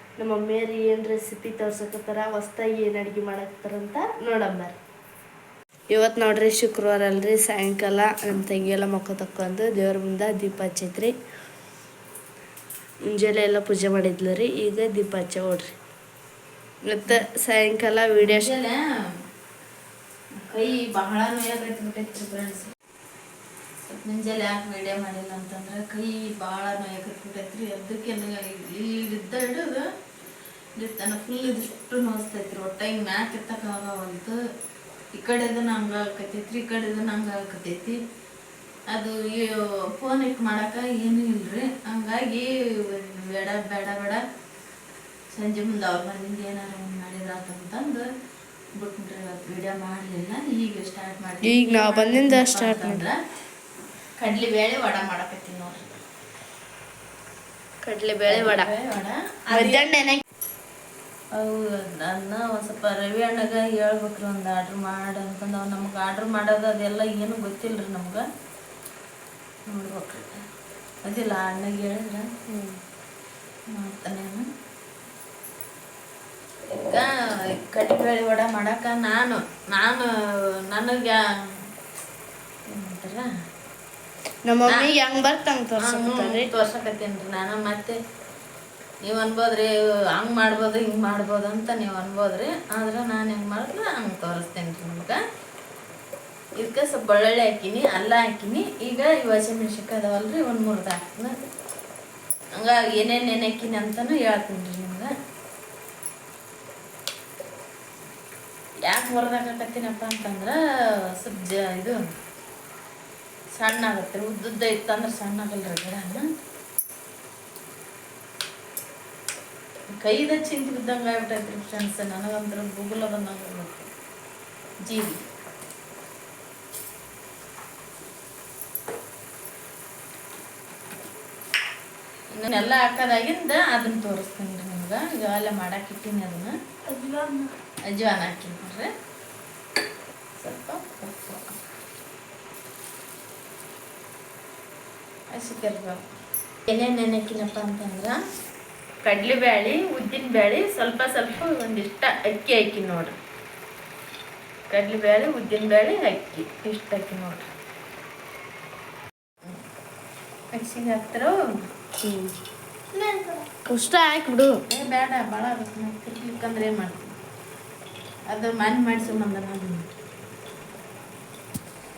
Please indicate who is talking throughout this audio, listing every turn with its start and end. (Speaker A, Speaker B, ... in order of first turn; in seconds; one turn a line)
Speaker A: 0.2-4.8
Speaker A: 5.9-11.1
Speaker A: 13.1-15.7
Speaker A: 16.8-18.5
Speaker B: 18.2-18.8
Speaker B: 20.4-22.7
Speaker B: 23.8-29.8
Speaker B: 30.8-34.4
Speaker B: 35.1-38.0
Speaker B: 38.9-44.2
Speaker B: 45.3-48.0
Speaker B: 48.8-53.1
Speaker A: 51.4-53.0
Speaker B: 54.2-56.0
Speaker A: 57.8-58.7
Speaker B: 58.3-59.9
Speaker A: 59.5-60.2
Speaker B: 61.3-68.2
Speaker B: 69.7-70.4
Speaker B: 71.0-72.3
Speaker A: 72.5-72.8
Speaker B: 73.7-74.5
Speaker B: 76.8-81.7
Speaker B: 82.7-83.3
Speaker A: 84.4-86.5
Speaker B: 84.7-84.9
Speaker B: 85.8-88.0
Speaker B: 89.0-95.2
Speaker B: 96.6-101.3
Speaker B: 102.5-105.1
Speaker B: 108.9-110.5
Speaker B: 111.2-112.0
Speaker B: 113.5-116.2
Speaker B: 120.0-123.9
Speaker B: 124.8-125.2
Speaker B: 132.3-136.5
Speaker A: 136.9-137.4
Speaker B: 137.9-138.9
Speaker B: 140.4-141.6
Speaker B: 145.3-146.0
Speaker B: 146.7-148.2
Speaker B: 149.0-153.1
Speaker B: 154.7-157.5
Speaker B: 160.5-161.3
Speaker A: 162.0-162.3
Speaker B: 162.9-163.4
Speaker A: 163.7-164.6
Speaker B: 164.7-167.1
Speaker B: 168.3-169.9